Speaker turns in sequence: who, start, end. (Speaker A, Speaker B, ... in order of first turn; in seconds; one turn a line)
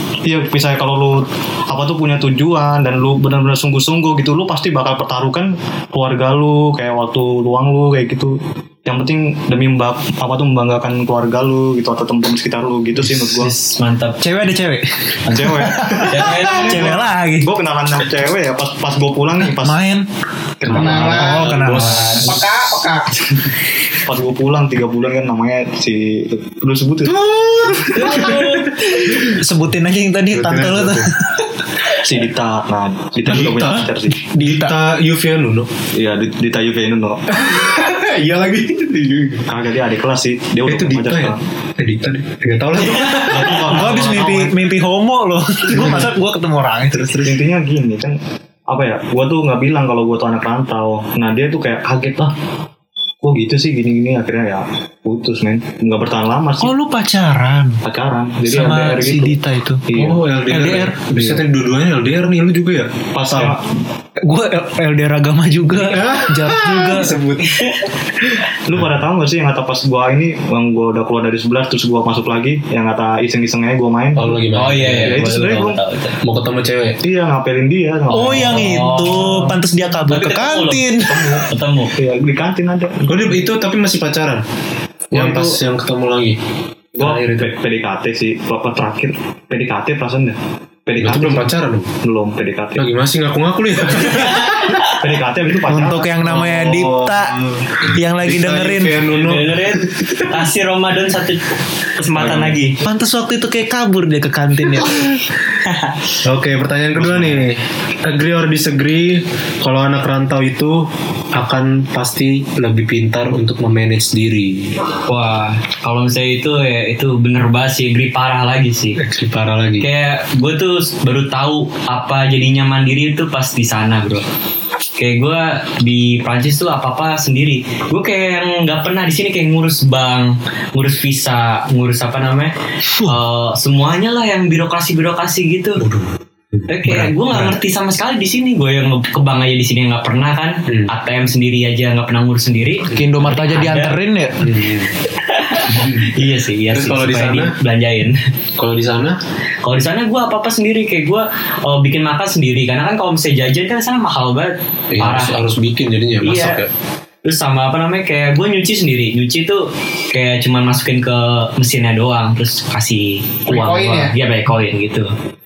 Speaker A: 0.2-13.5
Speaker B: 13.1-14.2
Speaker C: 14.2-17.5
Speaker A: 15.2-19.8
Speaker B: 16.1-17.0
Speaker C: 19.5-20.1
Speaker A: 20.6-22.3
Speaker D: 20.7-22.7
Speaker C: 20.7-22.3
Speaker E: 20.7-21.5
Speaker E: 22.2-23.1
Speaker A: 24.0-27.2
Speaker D: 27.1-29.4
Speaker B: 27.9-28.9
Speaker C: 29.3-31.5
Speaker D: 30.3-31.1
Speaker A: 31.9-34.2
Speaker D: 33.3-33.8
Speaker C: 33.3-34.8
Speaker D: 34.4-35.7
Speaker A: 36.0-37.2
Speaker D: 37.3-39.4
Speaker A: 39.5-41.4
Speaker D: 40.7-43.7
Speaker A: 43.0-44.6
Speaker C: 43.4-47.3
Speaker D: 45.8-46.0
Speaker A: 45.8-46.1
Speaker A: 47.2-48.2
Speaker A: 48.7-52.3
Speaker A: 53.2-56.7
Speaker C: 56.6-57.8
Speaker A: 57.9-59.4
Speaker C: 58.5-59.9
Speaker A: 59.9-60.2
Speaker D: 60.0-63.5
Speaker C: 60.5-61.0
Speaker A: 61.1-61.4
Speaker A: 63.1-63.7
Speaker C: 64.2-67.2
Speaker D: 65.7-67.6
Speaker B: 67.4-67.9
Speaker A: 68.7-74.4
Speaker D: 74.2-75.2
Speaker B: 74.5-76.2
Speaker A: 75.0-75.8
Speaker D: 76.2-77.0
Speaker A: 77.0-78.7
Speaker C: 78.1-81.5
Speaker B: 78.3-81.9
Speaker A: 82.0-83.2
Speaker D: 83.1-84.4
Speaker D: 85.1-86.4
Speaker C: 85.2-85.5
Speaker D: 87.0-87.5
Speaker A: 87.0-91.5
Speaker D: 91.0-91.9
Speaker A: 92.0-92.9
Speaker D: 92.8-94.8
Speaker A: 94.9-96.2
Speaker C: 95.7-97.3
Speaker D: 96.2-100.2
Speaker C: 97.9-99.0
Speaker B: 99.1-102.8
Speaker A: 102.2-102.6
Speaker C: 102.8-105.1
Speaker B: 105.7-106.0
Speaker D: 106.2-114.8
Speaker B: 115.1-119.0
Speaker D: 119.0-119.9
Speaker B: 119.8-124.2
Speaker B: 125.0-135.8
Speaker D: 135.8-136.6
Speaker B: 136.7-143.9
Speaker C: 142.9-144.5
Speaker D: 144.4-144.9
Speaker B: 145.2-148.2
Speaker D: 145.7-146.2
Speaker D: 146.7-147.6
Speaker D: 148.6-149.2
Speaker B: 149.6-155.4
Speaker D: 154.9-156.7
Speaker B: 156.2-156.6
Speaker B: 157.2-165.1
Speaker E: 163.5-164.2